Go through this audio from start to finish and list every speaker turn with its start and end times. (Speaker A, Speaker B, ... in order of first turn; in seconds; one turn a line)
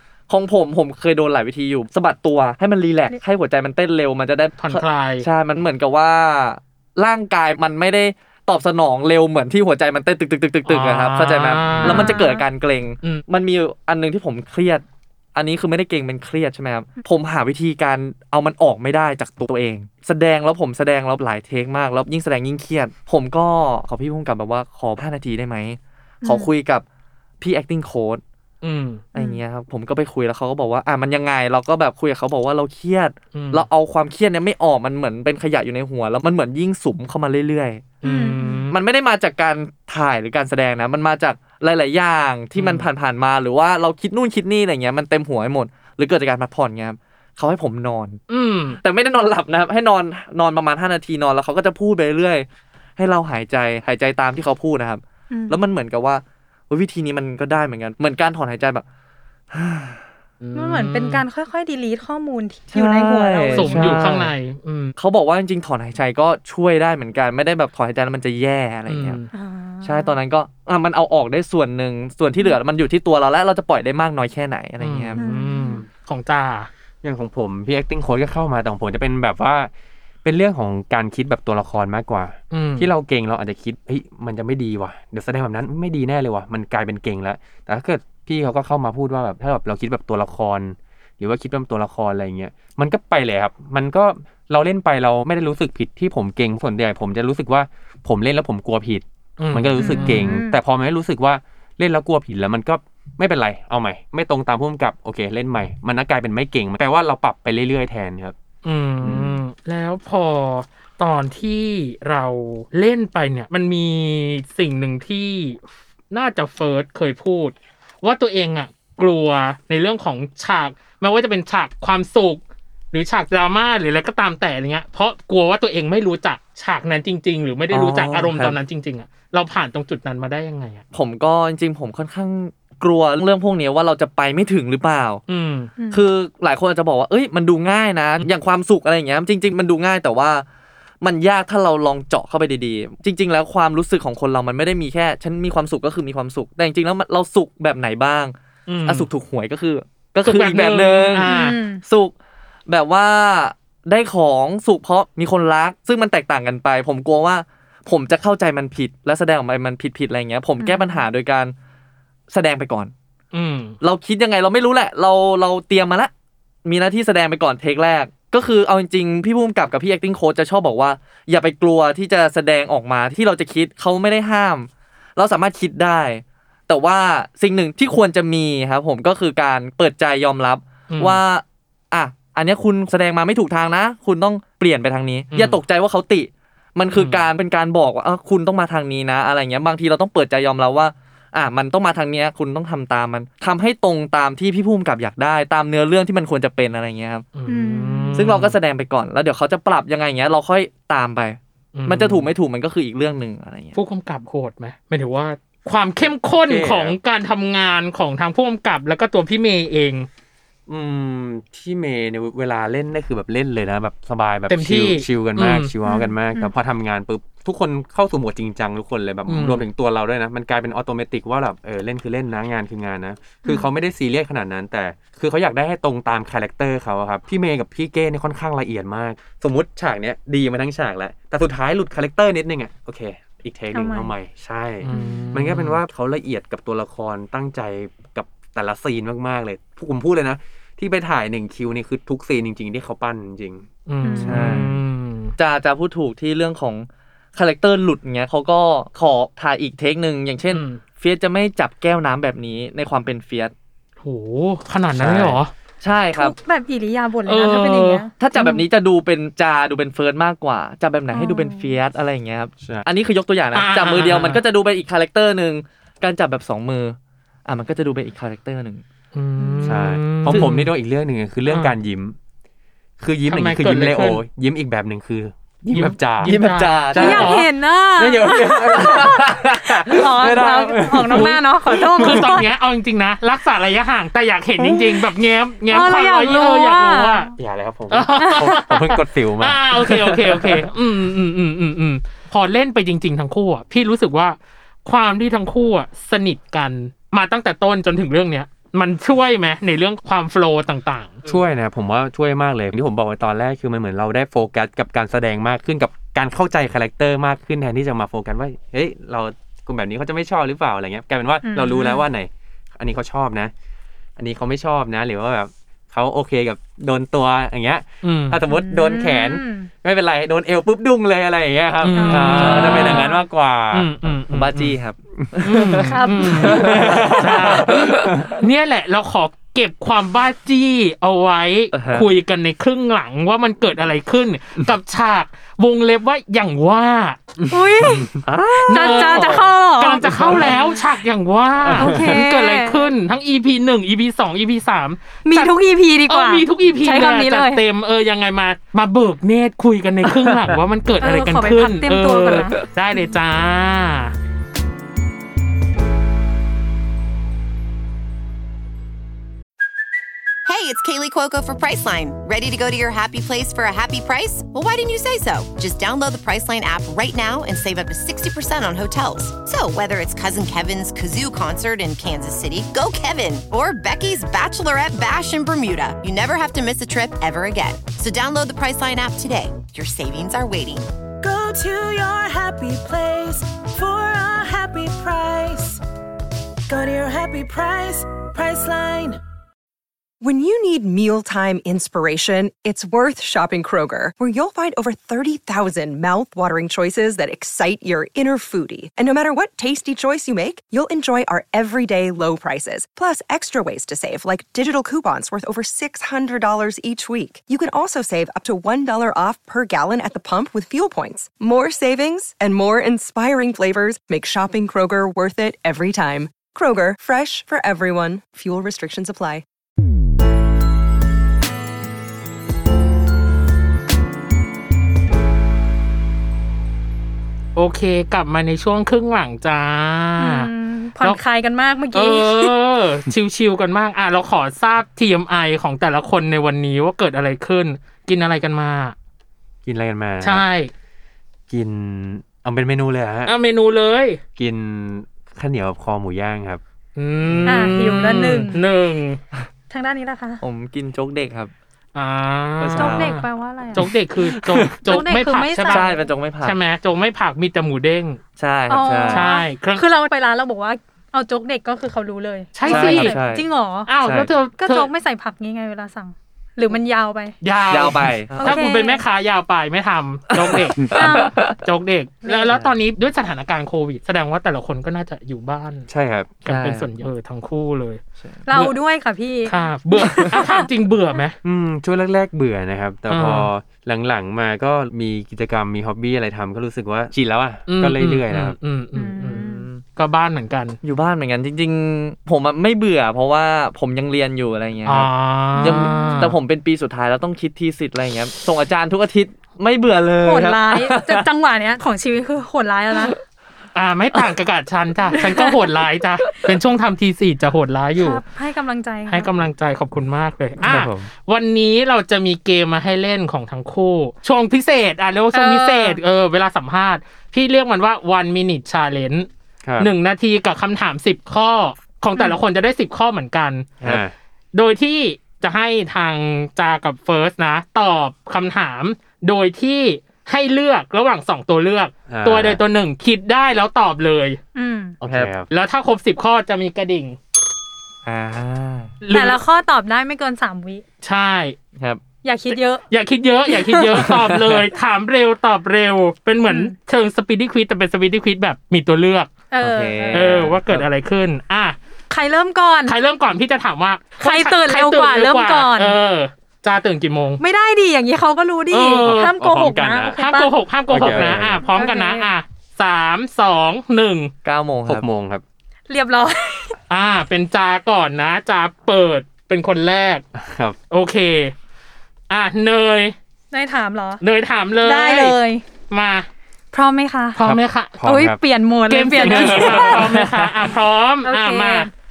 Speaker A: 0.3-14.8
Speaker B: 4.6-5.2
Speaker B: 10.7-12.2
Speaker C: 11.8-12.4
Speaker A: 15.3-26.8
Speaker C: 26.2-26.5
Speaker A: 27.4-28.2
Speaker B: 28.6-29.0
Speaker C: 29.1-29.4
Speaker A: 29.1-37.8
Speaker B: 33.3-33.6
Speaker B: 38.0-38.7
Speaker C: 38.0-38.7
Speaker A: 38.7-48.2
Speaker B: 42.5-42.9
Speaker B: 48.3-48.8
Speaker A: 48.8-58.8
Speaker C: 55.3-55.6
Speaker A: 59.5-60.0
Speaker B: 60.4-61.2
Speaker C: 60.5-64.0
Speaker A: 62.7-64.3
Speaker B: 63.5-64.9
Speaker A: 65.0-69.2
Speaker B: 68.9-69.3
Speaker C: 69.3-70.1
Speaker A: 69.8-75.2
Speaker B: 74.8-76.7
Speaker C: 75.2-75.8
Speaker D: 77.0-79.7
Speaker D: 80.2-108.3
Speaker B: 82.5-82.9
Speaker B: 99.4-100.3
Speaker C: 99.8-100.6
Speaker B: 108.6-115.6
Speaker B: 116.1-130.8
Speaker A: 127.7-128.6
Speaker A: 130.9-135.2
Speaker B: 135.3-135.7
Speaker C: 135.8-136.0
Speaker A: 135.9-140.4
Speaker A: 141.0-152.1
Speaker B: 148.7-149.1
Speaker B: 150.2-151.6
Speaker C: 151.2-151.8
Speaker A: 152.7-161.5
Speaker C: 160.6-161.0
Speaker A: 162.3-162.9
Speaker B: 163.3-163.8
Speaker A: 163.8-166.1
Speaker A: 166.6-197.2
Speaker B: 180.9-181.2
Speaker B: 185.3-185.6
Speaker B: 186.9-187.2
Speaker B: 197.3-198.6
Speaker C: 197.5-198.2
Speaker A: 198.1-203.8
Speaker B: 201.7-202.3
Speaker B: 203.7-210.1
Speaker D: 206.4-207.0
Speaker D: 210.7-243.7
Speaker B: 214.5-215.7
Speaker C: 215.8-216.5
Speaker B: 219.3-219.7
Speaker C: 233.7-234.1
Speaker B: 234.8-235.8
Speaker C: 234.9-235.3
Speaker B: 243.9-245.3
Speaker C: 244.0-244.6
Speaker A: 244.2-244.7
Speaker A: 245.4-253.5
Speaker B: 250.5-250.8
Speaker B: 254.0-255.5
Speaker D: 254.9-255.4
Speaker A: 255.8-256.3
Speaker C: 256.1-258.6
Speaker B: 257.2-258.0
Speaker A: 258.2-268.8
Speaker C: 261.1-261.8
Speaker B: 263.5-264.4
Speaker B: 269.1-270.7
Speaker C: 269.4-269.8
Speaker D: 269.6-272.1
Speaker B: 271.5-271.7
Speaker D: 273.0-276.3
Speaker B: 273.3-274.2
Speaker B: 275.7-277.5
Speaker A: 276.2-277.3
Speaker D: 276.9-277.4
Speaker C: 277.0-279.1
Speaker D: 278.0-282.2
Speaker A: 278.8-279.4
Speaker C: 279.7-282.5
Speaker B: 281.1-281.4
Speaker B: 281.9-287.3
Speaker C: 285.7-287.3
Speaker D: 287.4-290.1
Speaker B: 287.9-301.3
Speaker C: 288.2-288.6
Speaker D: 301.2-313.5
Speaker C: 311.4-312.1
Speaker D: 314.2-323.9
Speaker B: 318.0-318.4
Speaker C: 318.5-319.7
Speaker B: 321.8-323.1
Speaker C: 321.9-323.2
Speaker A: 322.4-323.0
Speaker B: 323.7-324.8
Speaker A: 324.3-328.1
Speaker B: 325.4-337.3
Speaker C: 325.8-326.8
Speaker D: 326.6-328.3
Speaker A: 331.7-332.1
Speaker D: 337.4-338.1
Speaker C: 337.5-340.6
Speaker A: 338.2-339.5
Speaker B: 338.7-345.5
Speaker D: 340.2-340.4
Speaker D: 341.7-342.2
Speaker C: 341.7-342.9
Speaker C: 345.2-347.6
Speaker B: 346.1-354.1
Speaker C: 351.0-352.7
Speaker E: 360.4-380.9
Speaker F: 381.2-385.8
Speaker F: 386.7-389.2
Speaker G: 390.2-419.4
Speaker B: 427.5-431.2
Speaker C: 430.2-432.5
Speaker B: 431.9-438.9
Speaker D: 439.6-440.4
Speaker B: 440.2-440.7
Speaker D: 441.5-443.3
Speaker B: 443.2-444.2
Speaker D: 444.4-446.6
Speaker B: 446.9-449.2
Speaker C: 447.4-448.6
Speaker C: 449.7-450.4
Speaker A: 450.4-451.5
Speaker B: 451.9-455.9
Speaker A: 452.6-453.2
Speaker C: 452.8-453.9
Speaker D: 454.5-454.7
Speaker C: 454.9-456.0
Speaker A: 455.6-456.6
Speaker B: 456.4-458.2
Speaker A: 458.4-459.3
Speaker C: 458.7-463.9
Speaker B: 459.1-459.8
Speaker B: 462.5-463.2
Speaker A: 462.6-463.4
Speaker B: 463.9-464.9
Speaker A: 464.0-464.3
Speaker C: 464.6-467.4
Speaker B: 467.4-475.9
Speaker A: 467.7-468.5
Speaker C: 468.3-469.0
Speaker A: 470.3-471.6
Speaker C: 470.9-471.5
Speaker C: 472.2-472.5
Speaker D: 475.9-476.4
Speaker B: 476.4-478.7
Speaker A: 476.4-476.9
Speaker A: 478.2-478.4
Speaker C: 478.4-479.6
Speaker B: 479.4-481.4
Speaker C: 480.1-480.6
Speaker D: 481.4-488.5
Speaker B: 483.1-483.5
Speaker B: 487.7-490.8
Speaker C: 488.9-489.7
Speaker A: 489.3-489.8
Speaker A: 490.8-501.3
Speaker B: 494.9-496.3
Speaker C: 495.6-496.4
Speaker C: 500.2-503.1
Speaker B: 503.7-508.2
Speaker C: 507.9-509.3
Speaker B: 509.1-519.3
Speaker A: 510.6-511.1
Speaker C: 515.3-516.0
Speaker D: 519.6-519.9
Speaker B: 519.8-523.7
Speaker D: 523.8-524.1
Speaker B: 524.5-534.4
Speaker D: 532.1-532.6
Speaker C: 534.5-535.0
Speaker D: 535.0-535.5
Speaker A: 535.1-535.3
Speaker B: 535.5-537.2
Speaker A: 538.0-538.9
Speaker B: 539.0-539.4
Speaker C: 539.1-540.8
Speaker B: 541.0-541.6
Speaker C: 542.2-542.8
Speaker B: 542.5-549.3
Speaker A: 543.9-544.6
Speaker C: 546.5-546.7
Speaker C: 549.5-550.5
Speaker A: 549.6-550.8
Speaker B: 550.1-551.8
Speaker C: 552.1-553.0
Speaker B: 552.9-557.4
Speaker C: 554.2-556.0
Speaker C: 557.4-560.5
Speaker B: 558.7-559.3
Speaker D: 559.0-560.2
Speaker B: 560.1-564.3
Speaker D: 560.9-561.6
Speaker A: 561.0-561.4
Speaker C: 561.6-562.3
Speaker A: 564.4-565.0
Speaker D: 564.9-565.4
Speaker C: 565.9-566.7
Speaker B: 566.9-570.2
Speaker D: 570.4-570.8
Speaker B: 570.9-571.5
Speaker B: 572.3-573.1
Speaker C: 573.5-574.2
Speaker B: 574.2-575.4
Speaker C: 574.8-575.6
Speaker B: 575.9-576.3
Speaker C: 576.7-577.4
Speaker B: 577.4-578.0
Speaker D: 577.4-578.4
Speaker C: 578.0-580.1
Speaker B: 578.9-581.9
Speaker D: 579.2-580.0
Speaker C: 581.2-581.9